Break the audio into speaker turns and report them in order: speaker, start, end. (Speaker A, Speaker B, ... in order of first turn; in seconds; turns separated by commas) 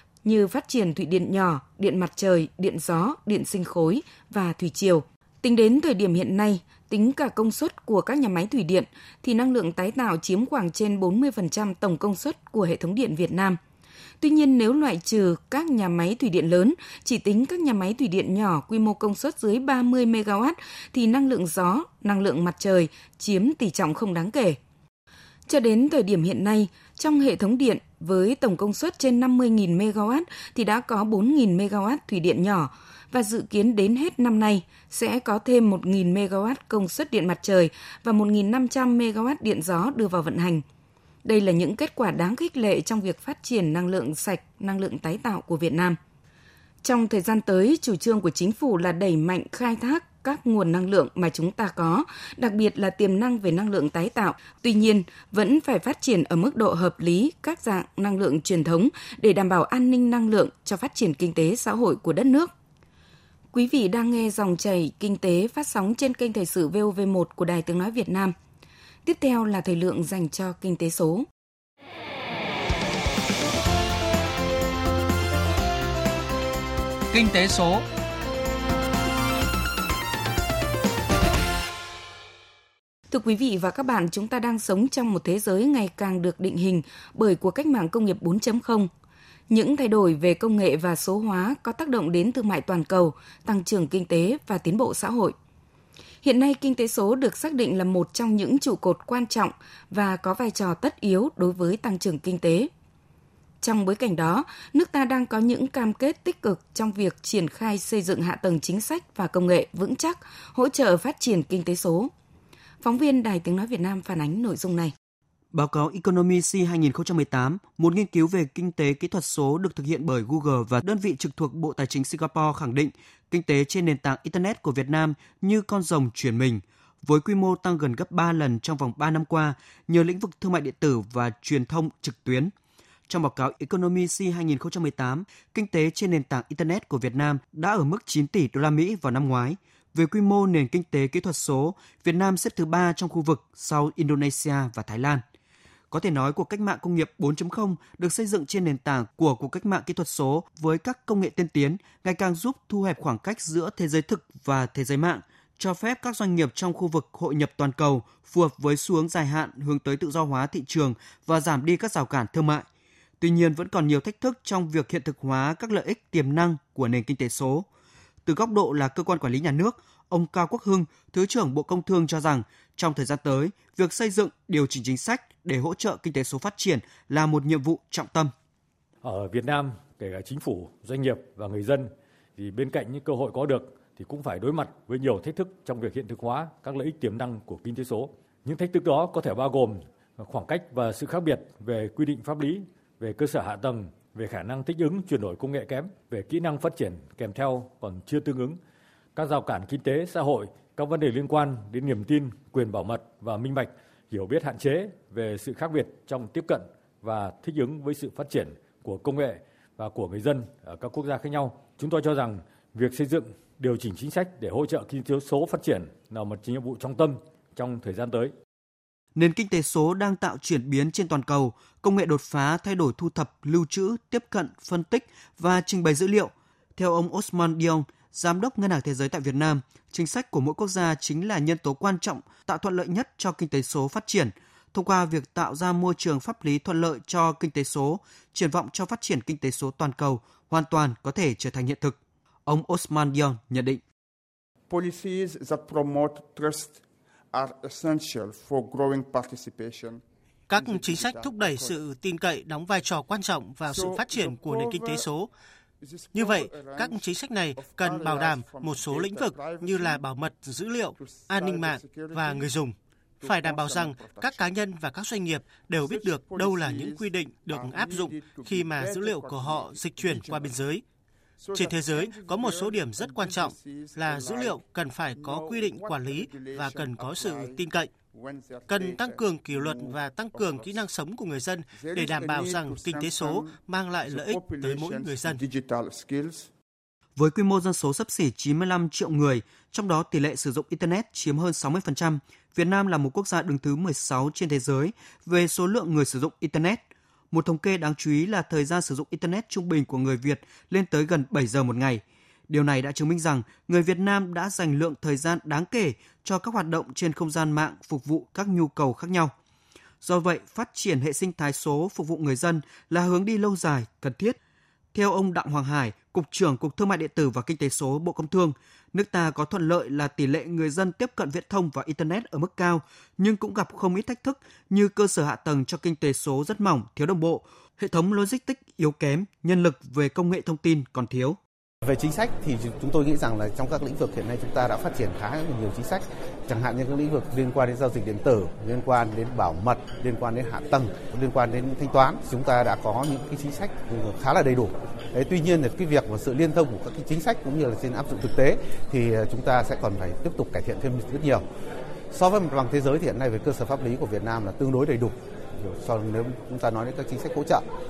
Speaker A: 0.2-13.6, Speaker A: 14.2-24.6, Speaker A: 25.5-40.6, Speaker A: 41.2-46.0, Speaker A: 46.8-62.5, Speaker A: 63.5-68.3, Speaker A: 69.0-71.2, Speaker A: 83.1-88.9, Speaker A: 89.5-95.3, Speaker A: 96.2-102.7, Speaker A: 103.6-112.1, Speaker A: 112.8-114.9, Speaker B: 115.5-132.5, Speaker B: 133.1-145.2, Speaker B: 145.9-162.6, Speaker B: 163.2-167.7, Speaker B: 168.2-178.3, Speaker C: 179.0-198.6, Speaker C: 199.2-218.3, Speaker B: 219.1-243.8, Speaker D: 244.7-246.8, Speaker D: 247.3-250.0, Speaker E: 250.5-255.3, Speaker D: 250.5-251.9, Speaker D: 253.7-255.1, Speaker D: 255.8-260.1, Speaker E: 256.1-270.8, Speaker D: 260.9-262.7, Speaker D: 263.2-264.6, Speaker D: 265.6-270.7, Speaker D: 271.4-280.9, Speaker E: 271.6-277.9, Speaker E: 278.7-285.4, Speaker D: 281.7-286.5, Speaker B: 287.2-296.8, Speaker B: 297.3-309.3, Speaker B: 310.0-314.4, Speaker B: 314.9-331.4, Speaker F: 331.8-351.4, Speaker F: 352.1-357.6